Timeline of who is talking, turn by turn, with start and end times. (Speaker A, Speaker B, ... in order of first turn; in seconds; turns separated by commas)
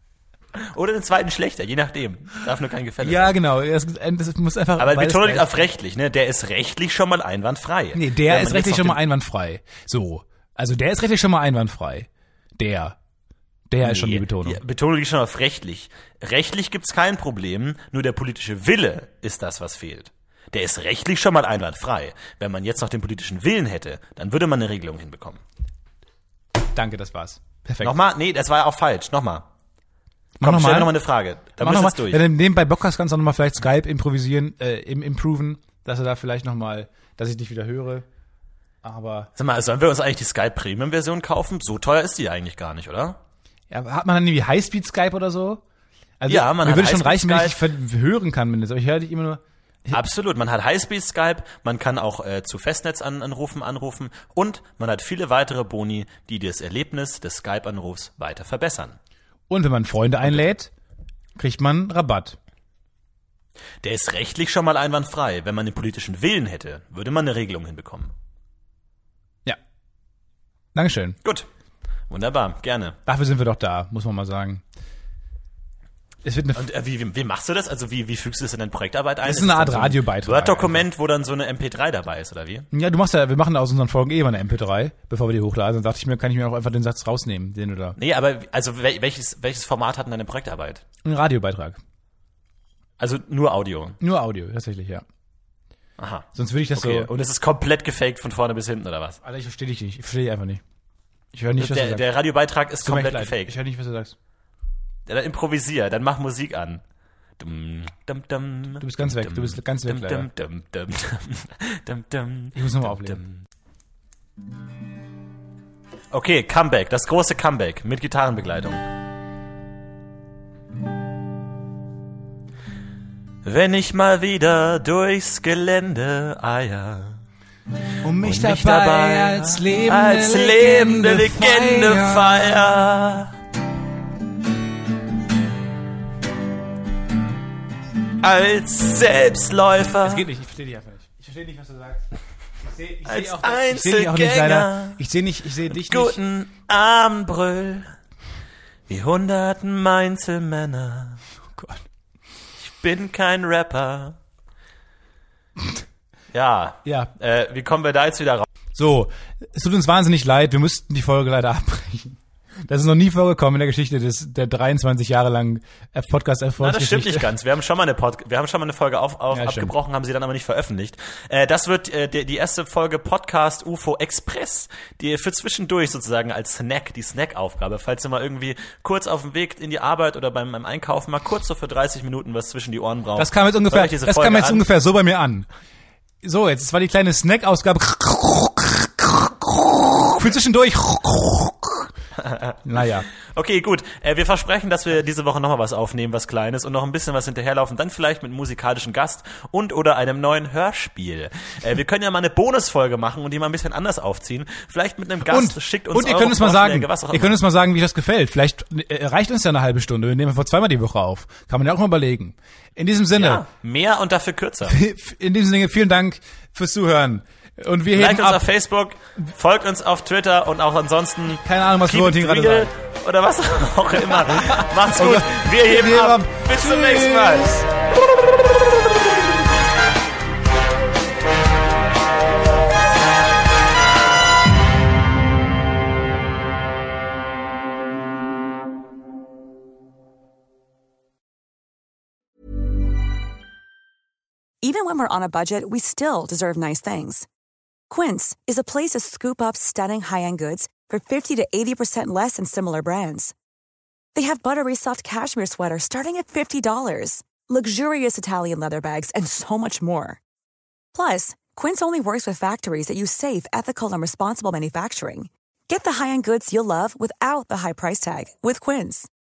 Speaker A: 0.6-3.4, Speaker B: 3.0-5.6, Speaker A: 4.8-9.0, Speaker B: 8.0-13.0, Speaker B: 13.7-14.6, Speaker A: 13.8-25.4, Speaker B: 26.7-27.9, Speaker A: 27.8-29.5, Speaker B: 30.4-31.0, Speaker A: 30.4-32.2, Speaker B: 31.6-38.0, Speaker B: 38.8-39.3, Speaker A: 39.4-43.2, Speaker B: 43.7-45.6, Speaker B: 46.2-50.0, Speaker A: 46.3-47.6, Speaker A: 49.9-59.0, Speaker B: 59.5-60.7, Speaker B: 61.4-62.4, Speaker A: 63.8-68.1, Speaker B: 70.7-71.2, Speaker A: 72.1-73.0, Speaker B: 73.1-74.6, Speaker B: 76.2-76.6, Speaker A: 76.5-82.7, Speaker B: 79.2-80.9, Speaker B: 82.7-88.0, Speaker A: 88.0-90.8, Speaker B: 91.0-91.8, Speaker A: 93.0-94.0, Speaker B: 94.0-95.0, Speaker A: 96.0-99.2, Speaker B: 96.3-97.1, Speaker B: 99.2-100.6, Speaker B: 101.3-102.1, Speaker A: 101.6-103.5, Speaker B: 102.8-104.1, Speaker A: 105.1-106.8, Speaker A: 107.4-113.4, Speaker B: 108.8-110.3, Speaker B: 112.5-113.2, Speaker A: 116.1-118.8, Speaker A: 123.4-127.2, Speaker B: 128.0-132.6, Speaker A: 128.2-133.3, Speaker A: 138.2-140.2, Speaker B: 140.0-142.1, Speaker B: 142.6-146.2, Speaker A: 143.1-145.0, Speaker A: 145.7-147.9, Speaker A: 148.9-151.2, Speaker B: 151.5-151.8, Speaker A: 152.6-154.2, Speaker A: 156.3-158.5, Speaker B: 156.8-157.1, Speaker B: 158.7-167.3, Speaker A: 166.6-184.7, Speaker B: 169.3-169.7, Speaker B: 183.2-185.5, Speaker B: 186.2-191.9, Speaker A: 192.2-192.6, Speaker B: 192.6-193.1, Speaker A: 193.1-207.4, Speaker B: 205.3-213.4, Speaker A: 213.2-214.8, Speaker B: 214.7-218.4, Speaker A: 217.9-227.6, Speaker B: 221.4-222.7, Speaker B: 224.1-227.7, Speaker C: 244.6-247.3, Speaker C: 247.9-253.3, Speaker C: 254.1-260.2, Speaker C: 260.9-269.1